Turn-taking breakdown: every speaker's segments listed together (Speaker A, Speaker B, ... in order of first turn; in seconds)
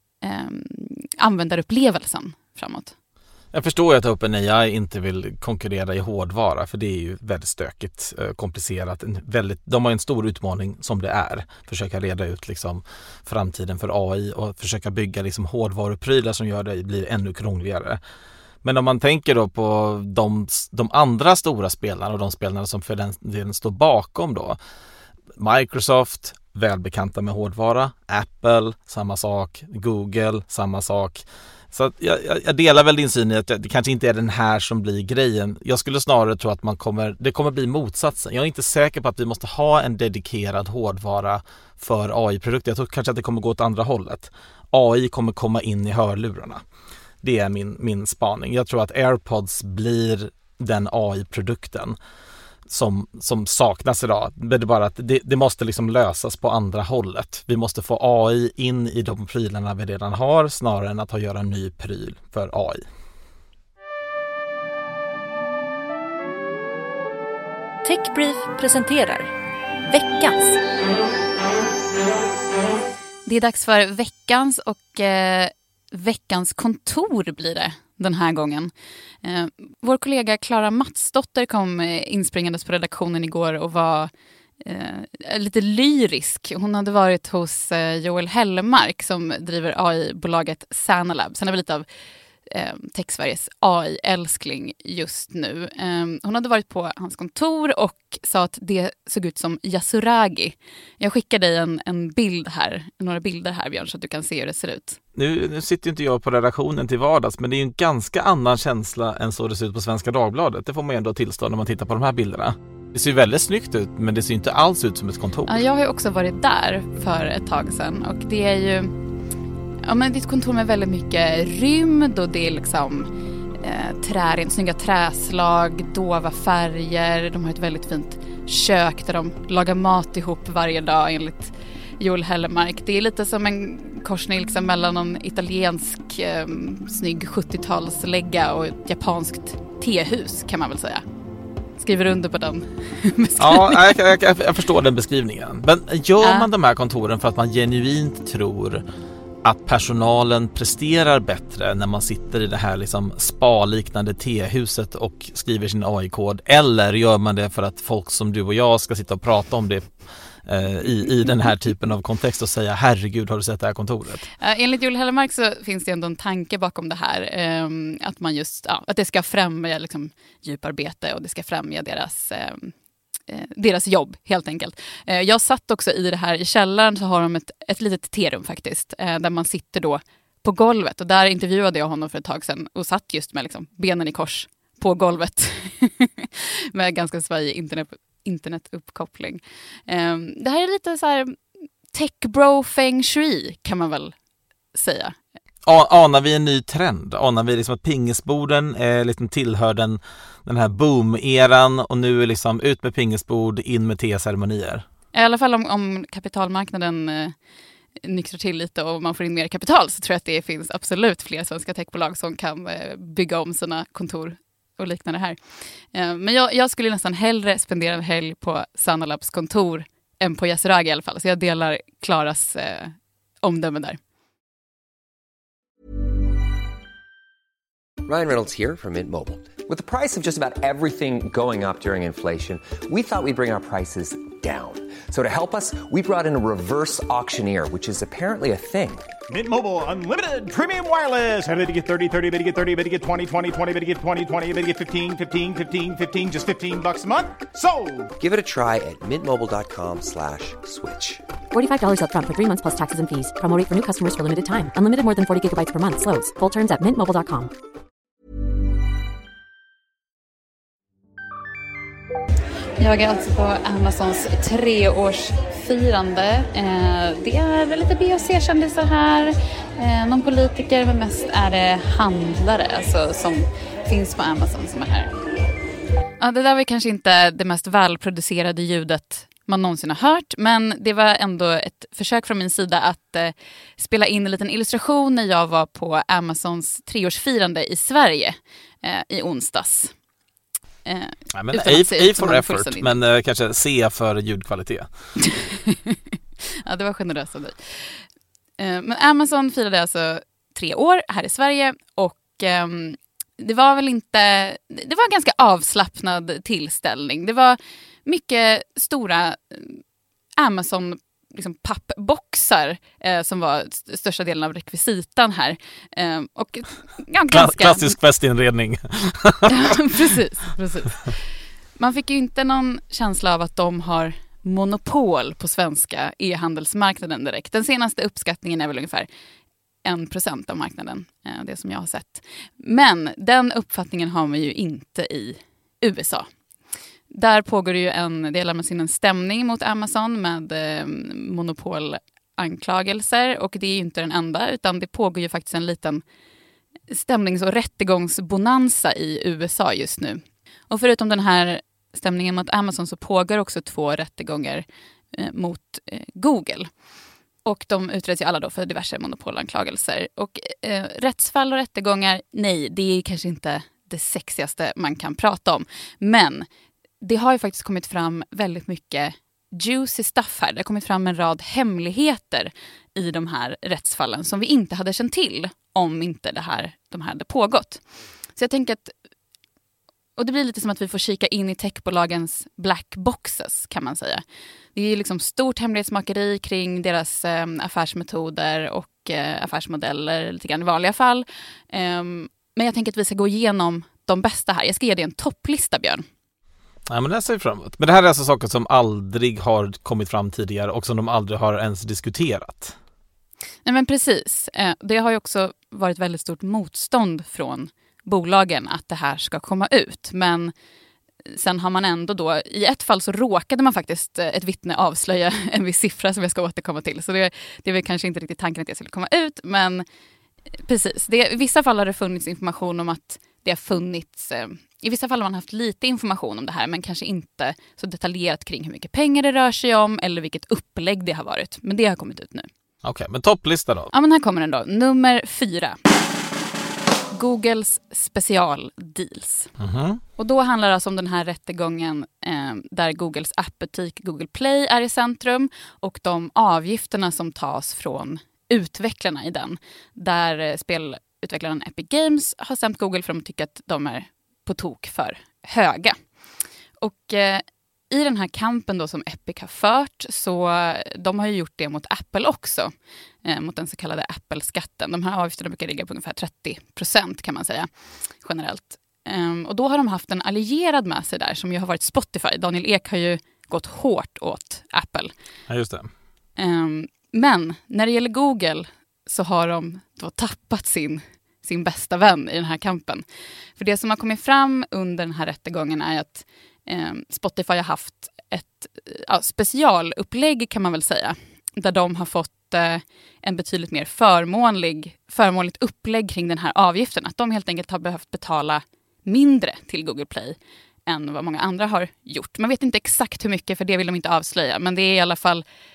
Speaker A: 0.2-2.9, 73.2-78.7, 79.2-91.8, 92.5-105.0, 115.5-118.9, 119.8-141.0, 141.8-144.0, 146.2-146.5, 164.4-172.7, 173.3-191.4, 191.9-194.1, 194.7-195.2, 205.1-207.3, 208.0-215.4, 215.9-224.0, 262.8-275.1, 276.2-289.9, 290.9-293.0, 295.2-296.0, 296.6-298.0, 298.6-309.8, 310.4-317.9, 319.5-321.2, 321.8-329.1, 329.8-336.3, 337.1-346.0, 346.9-356.7, 357.4-366.5, 367.0-378.9, 380.2-384.2, 384.7-396.0, 403.6-410.5, 411.2-419.8, 420.6-432.5, 433.9-435.8, 437.1-439.5, 440.2-456.0, 456.8-462.7, 463.2-467.7, 468.2-475.1, 476.4-483.0, 483.6-500.4, 500.9-505.4
Speaker B: 3.5-18.0, 18.6-24.6, 25.4-46.6, 47.2-52.0, 52.7-62.8, 105.1-115.6, 143.4-148.8, 149.4-159.9, 160.4-164.3, 195.7-204.8, 291.3-294.9, 317.3-319.7, 396.9-402.8, 432.8-433.9, 439.6-440.0, 475.5-475.9
Speaker C: 67.8-69.3, 69.9-70.6
Speaker D: 228.1-239.1, 248.2-251.2
Speaker E: 239.3-248.1
Speaker F: 251.5-257.5